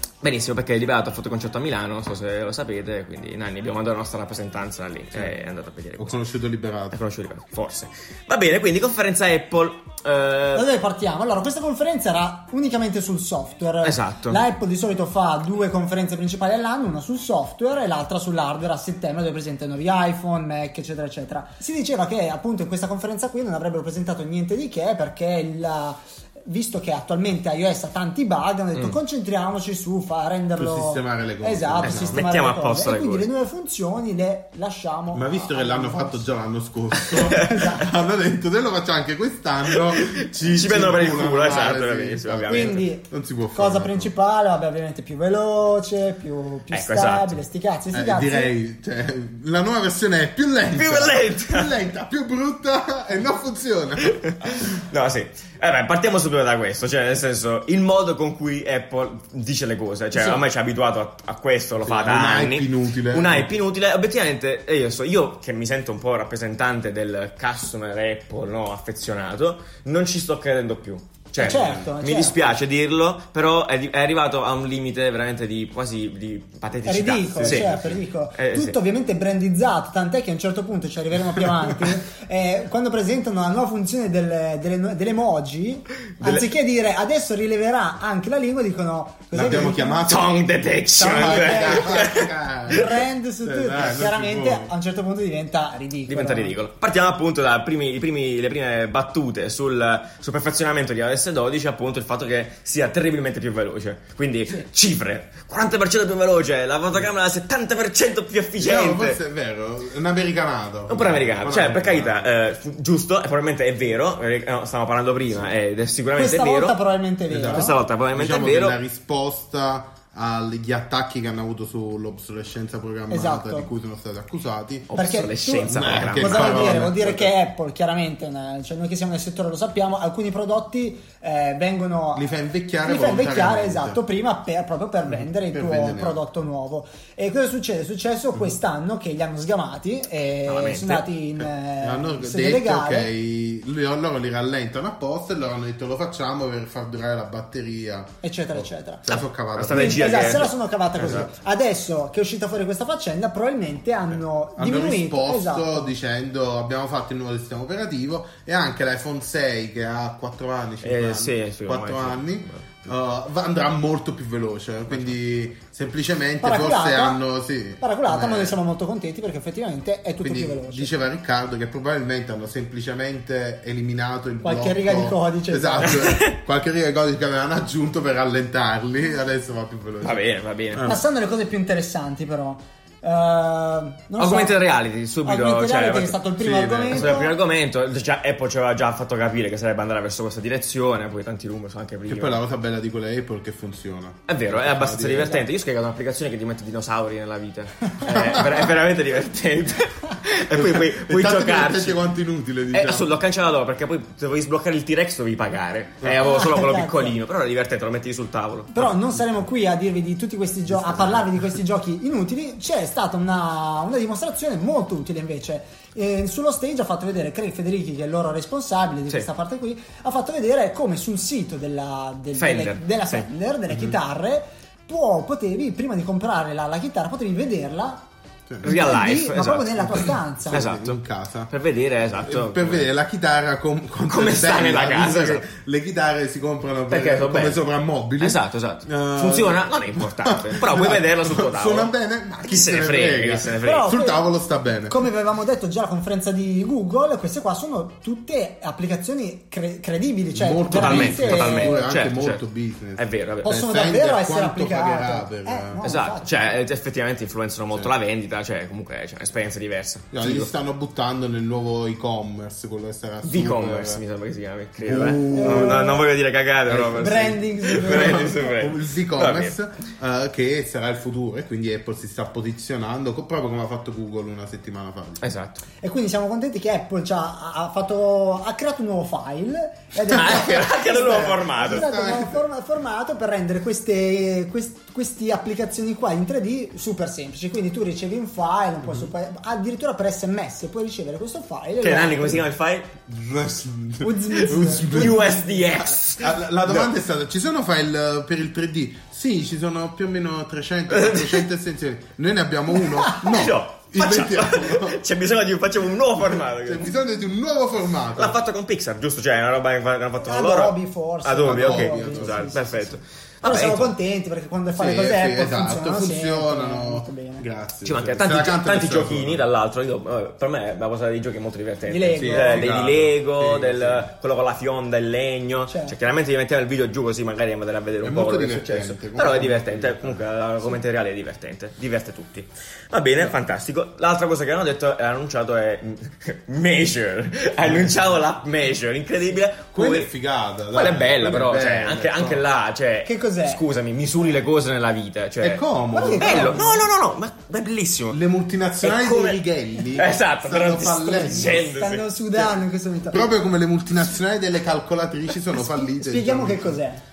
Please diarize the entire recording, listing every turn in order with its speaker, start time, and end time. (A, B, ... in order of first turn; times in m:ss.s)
0:00.2-0:06.2 A
0:06.0-0:07.0 B
0:06.9-0:10.7 A
0:10.5-0:36.3 C
0:13.8-0:14.4 A
0:30.6-0:32.3 B
0:31.8-0:33.3 A
0:35.1-0:44.1 B
0:37.2-0:37.6 A
0:37.4-0:37.8 C
0:39.7-0:42.8 A
0:42.5-0:48.5 C
0:46.7-0:47.4 A
0:47.9-0:54.2 B
0:50.8-0:51.8 A
0:54.1-1:18.8 A
1:00.1-1:00.4 B
1:01.8-1:03.5 B
1:11.4-1:12.4 C
1:11.4-1:11.9 B
1:16.9-1:30.1 C
1:17.4-1:17.8 B
1:26.2-1:26.5 A
1:29.3-1:30.4 B
1:30.1-1:32.3 A
1:31.0-1:32.1 C
1:31.1-1:34.7 B
1:32.7-1:36.6 C
1:36.1-1:49.2 A
1:48.6-1:52.3 B
1:50.9-1:56.8 A
1:56.2-1:57.8 C
1:57.3-2:04.9 B
1:57.5-1:58.8 A
2:03.1-2:03.7 C
2:04.9-2:06.8 A
2:05.0-2:12.3 C
2:05.6-2:07.3 B
2:12.2-2:14.0 B
2:12.8-2:23.1 C
2:15.1-2:16.2 B
2:20.5-2:21.0 A
2:21.4-2:30.4 B
2:28.2-2:29.1 C
2:29.1-2:31.3 A
2:29.7-2:35.9 C
2:31.0-2:31.3 B
2:34.6-2:48.6 B
2:40.8-2:42.9 A
2:44.9-2:45.2 A
2:46.4-2:47.2 C
2:47.8-2:50.9 C
2:50.2-3:01.0 B
2:54.4-2:56.2 C
2:55.9-2:56.3 A
3:00.0-3:00.9 A
3:00.9-3:04.6 C
3:04.2-3:06.2 A
3:05.2-3:07.3 C
3:06.4-3:07.2 B
3:06.9-3:12.4 A
3:12.1-3:15.4 B
3:14.3-3:22.0 A
3:18.1-3:18.7 B
3:20.5-3:23.1 B
3:22.7-3:29.0 A
3:26.2-3:27.2 C
3:28.7-3:48.0 C
3:30.7-3:31.6 B
3:42.4-3:43.3 A
3:43.7-3:44.0 B
3:48.5-3:48.8 B
3:48.6-3:50.6 C
3:48.6-3:51.0 A
3:49.8-3:51.5 B
3:51.5-3:52.9 A
3:52.2-4:05.1 B
3:54.1-3:55.4 A
3:56.9-3:57.6 A
3:58.2-4:01.9 A
4:02.4-4:03.9 A
4:03.6-4:04.2 C
4:04.9-4:11.8 C
4:10.3-4:15.8 B
4:10.7-4:12.4 A
4:13.0-4:13.6 A
4:13.4-4:16.3 C
4:15.8-4:20.5 A
4:20.1-4:24.0 B
4:23.2-4:29.6 A
4:24.8-4:25.9 B
4:25.3-4:26.0 C
4:26.7-4:35.3 B
4:26.9-4:28.5 C
4:35.2-4:35.6 A
4:35.8-4:52.4 C
4:40.1-4:41.9 A
4:41.0-4:42.4 B
4:48.8-4:49.1 B
4:51.8-4:52.9 A
4:53.1-5:05.0 B
4:54.0-4:55.4 C
4:54.4-4:56.9 A
5:00.9-5:01.4 A
5:03.2-5:06.9 A
5:06.4-5:08.4 B
5:08.2-5:14.0 A
5:10.2-5:17.5 C
5:11.4-5:12.6 B
5:14.8-5:19.4 B
5:17.8-5:40.1 A
5:21.9-5:22.7 C
5:22.2-5:24.1 B
5:25.7-5:26.0 C
5:28.0-5:30.2 B
5:37.6-5:38.1 B
5:39.7-5:42.4 B
5:40.7-5:45.6 A
5:43.1-5:43.6 C
5:45.4-5:46.8 B
5:45.9-5:46.6 C
5:46.2-5:48.2 A
5:48.1-5:51.8 B
5:48.8-5:49.4 A
5:49.9-5:52.1 A
5:51.5-5:53.3 C
5:53.1-5:56.8 B
5:55.6-5:57.0 C